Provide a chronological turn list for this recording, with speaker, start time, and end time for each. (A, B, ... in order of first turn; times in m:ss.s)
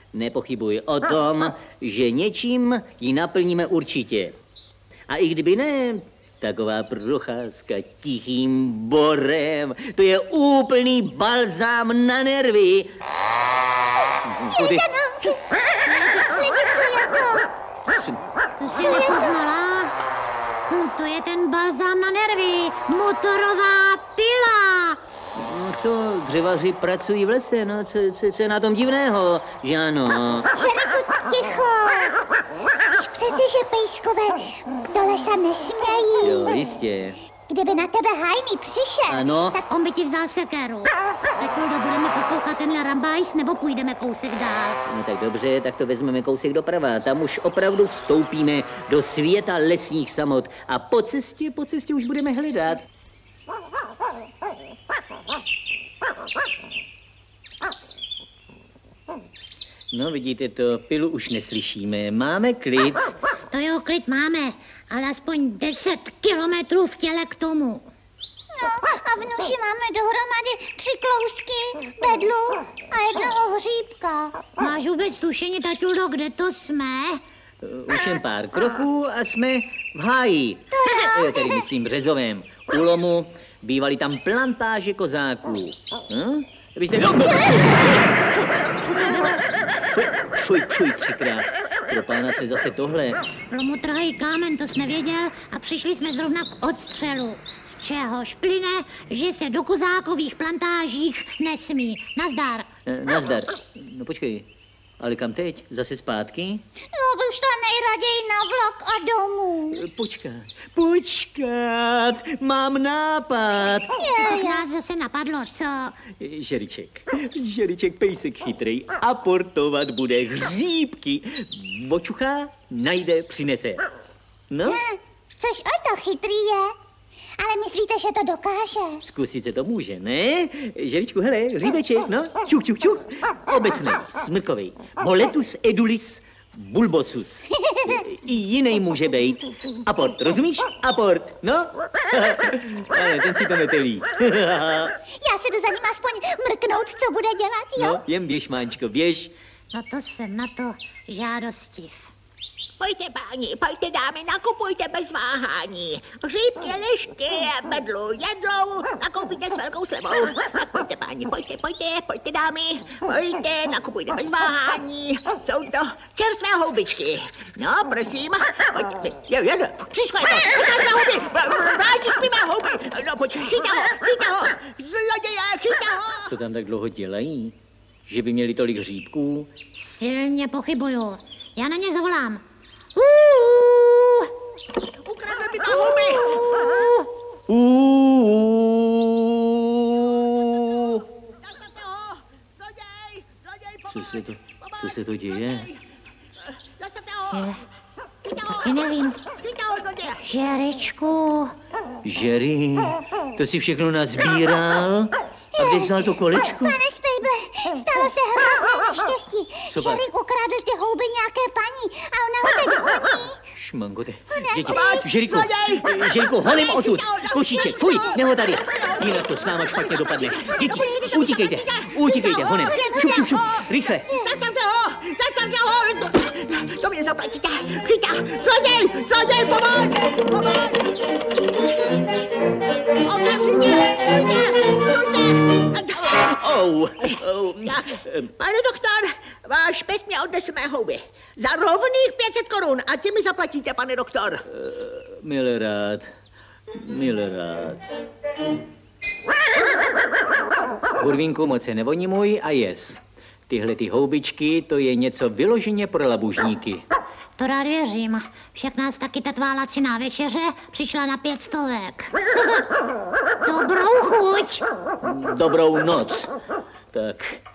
0:00.1-0:04.4 A
0:05.1-0:13.0 A
0:14.2-0:14.8 A
0:14.5-0:15.4 B
0:15.8-0:16.3 C
0:16.0-0:17.5 B
0:17.9-0:18.2 A
0:18.6-0:19.9 C
0:18.7-0:19.3 B
0:20.7-0:25.0 C
0:25.3-0:30.5 A
0:30.5-0:32.2 B
0:32.9-0:36.6 B
0:36.2-0:37.2 A
0:37.5-0:39.6 B
0:39.1-0:39.6 A
0:39.7-0:44.8 C
0:44.9-0:52.8 A
0:59.9-1:03.1 A
1:03.5-1:07.9 C
1:08.5-1:14.4 B
1:14.6-1:17.2 C
1:17.6-1:28.0 A
1:20.8-1:21.6 B
1:28.9-1:29.4 C
1:29.9-1:33.2 A
1:33.5-1:42.7 C
1:42.9-1:44.5 A
1:45.0-1:46.6 A
1:46.9-1:49.8 B
1:49.7-1:54.0 A
1:54.0-1:54.6 B
1:54.2-1:56.0 C
1:56.2-2:03.8 A
2:04.5-2:04.8 A
2:04.6-2:06.8 B
2:07.4-2:09.0 B
2:09.0-2:25.0 A
2:17.7-2:18.0 B
2:25.2-2:28.0 B
2:27.8-2:29.4 A
2:29.7-2:32.1 C
2:32.8-2:56.3 D
2:56.3-2:57.6 A
2:58.1-2:59.6 A
2:59.8-3:02.4 C
3:03.0-3:04.2 A
3:05.0-3:06.7 D
3:06.4-3:06.9 A
3:07.5-3:11.0 A
3:10.8-3:15.8 D
3:13.9-3:15.7 A
3:16.6-3:17.5 D
3:17.3-3:17.6 C
3:18.2-3:20.2 D
3:18.5-3:19.2 C
3:20.2-3:21.5 C
3:22.0-3:26.8 A
3:25.6-3:33.4 B
3:29.7-3:30.0 A
3:33.5-3:44.1 A
3:34.3-3:35.0 B
3:34.7-3:51.0 D
3:42.1-3:43.4 B
3:53.0-3:56.2 D
3:56.1-3:58.3 A
3:57.6-4:04.4 D
4:04.5-4:06.1 A
4:06.7-4:07.8 A
4:11.0-4:16.8 A
4:17.4-4:22.6 C
4:23.4-4:24.6 C
4:25.0-4:26.3 A
4:26.9-4:27.4 A